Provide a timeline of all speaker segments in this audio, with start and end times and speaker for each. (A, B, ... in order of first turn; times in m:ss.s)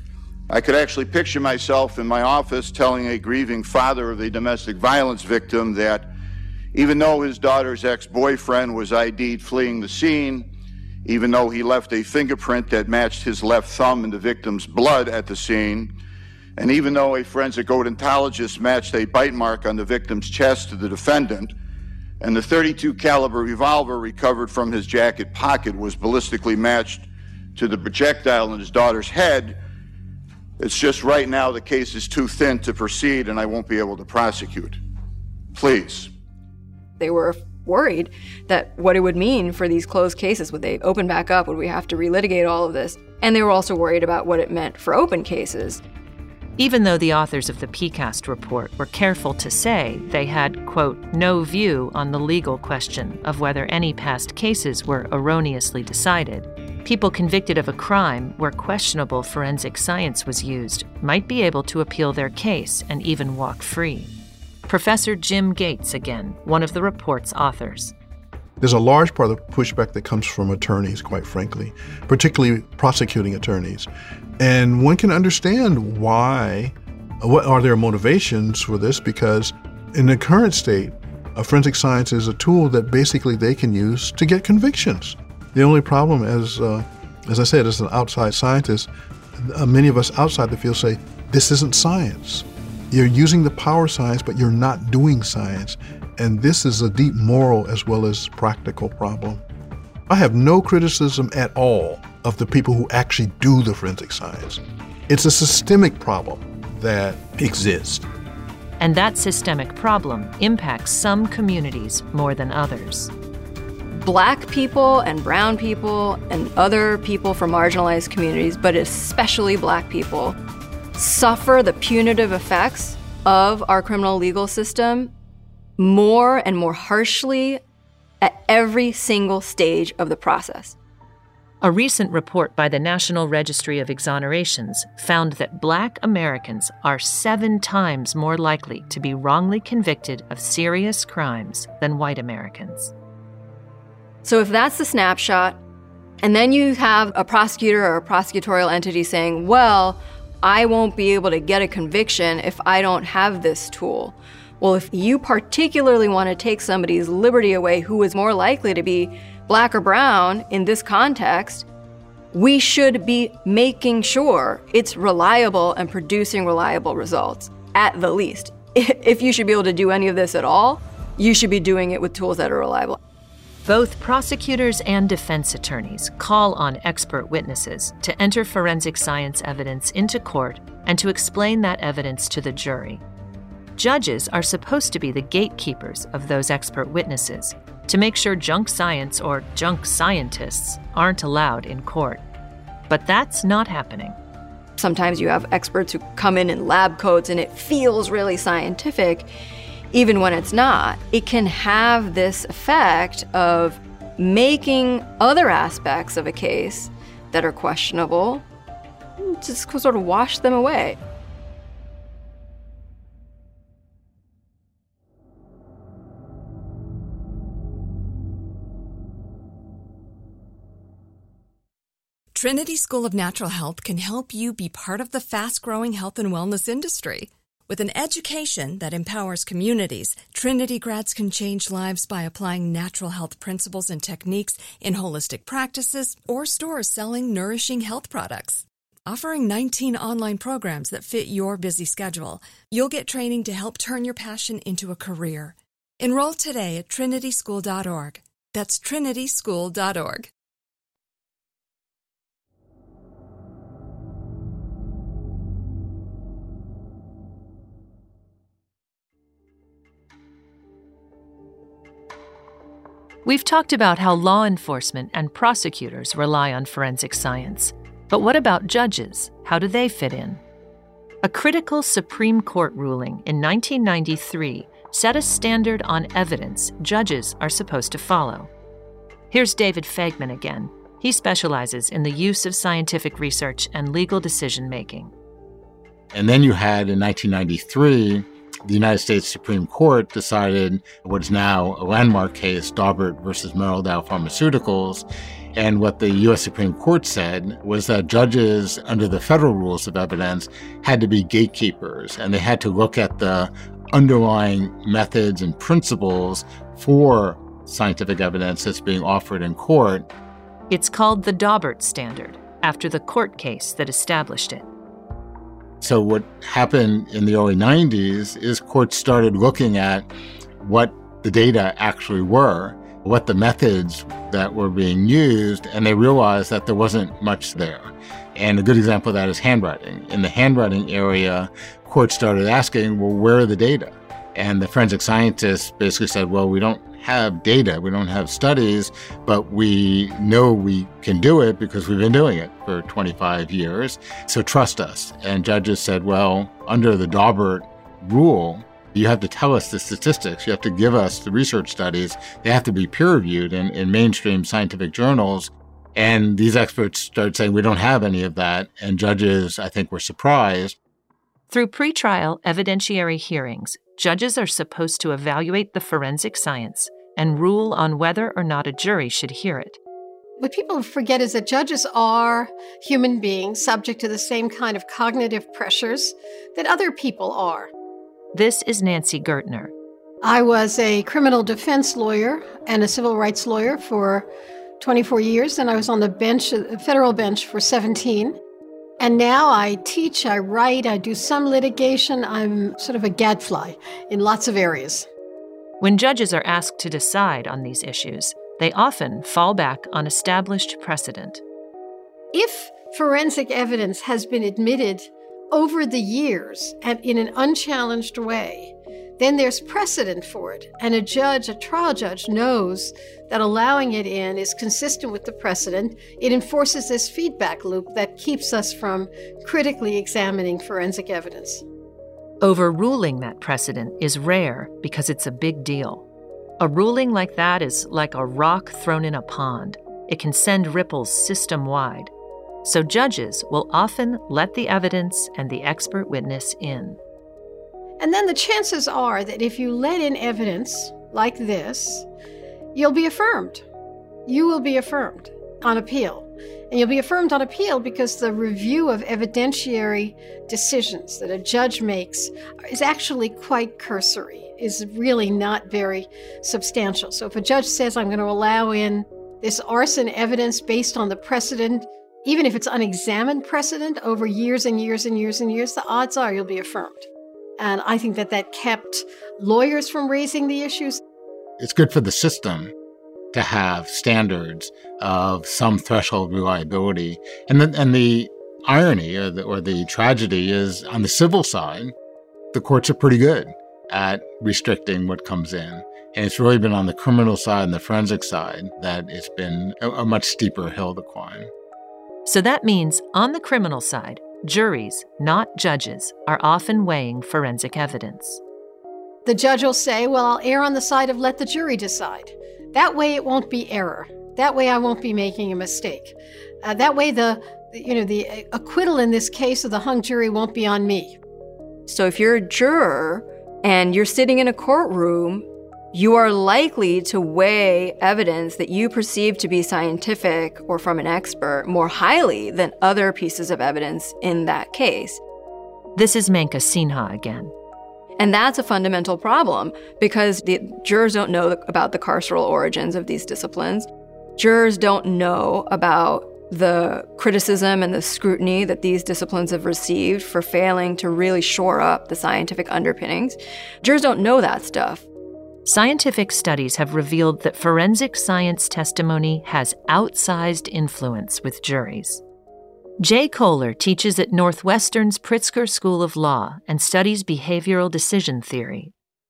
0:00.5-0:06.1 A
0:06.7-0:10.5 A
0:11.0-0:15.9 A
0:16.6-0:21.6 A
0:22.2-0:29.6 A
0:30.6-0:34.8 A
0:35.5-0:36.1 A
0:37.0-0:45.8 B
0:46.6-1:04.1 C
1:04.7-1:07.9 C
1:08.6-1:13.9 D
1:14.4-1:39.4 D
1:40.1-1:48.1 D
1:48.8-1:53.1 C
1:53.9-2:00.4 B
2:01.0-2:05.1 B
2:05.8-2:07.6 B
2:08.2-2:10.8 B
2:11.6-2:22.9 C
2:24.2-2:25.6 B
2:26.2-2:41.7 B
2:42.3-2:53.0 B
2:53.7-3:03.0 C
3:03.8-3:12.2 C
3:12.9-3:14.2 C
3:14.8-3:19.3 B
3:19.9-3:28.4 B
3:29.2-3:31.0 B
3:42.3-4:10.3 E
4:23.2-4:30.4 C
4:31.2-4:38.5 C
4:39.3-4:45.1 C
4:46.1-5:10.1 F
5:10.7-5:14.7 C
5:15.8-5:20.1 F
5:20.6-6:00.8 F
6:01.5-6:09.8 C
6:10.4-6:17.7 G
6:18.3-6:19.7 C
6:20.2-6:24.3 G
6:24.8-6:28.4 G
6:29.0-6:35.1 G
6:35.8-6:41.4 C
6:42.3-7:01.6 G
7:02.4-7:06.0 C
7:06.6-7:12.1 C
7:12.6-7:17.0 C
7:18.0-7:22.1 G
7:22.7-7:23.6 G
7:24.3-7:47.1 G
7:47.6-7:51.0 G
7:51.6-7:52.7 F
7:53.3-8:01.9 F
8:02.5-8:11.5 F
8:12.2-8:18.4 C
8:19.3-8:31.2 G
8:31.9-8:45.2 B
8:46.0-8:47.5 C
8:48.2-9:05.0 B
9:05.6-9:12.2 C
9:13.0-9:18.9 C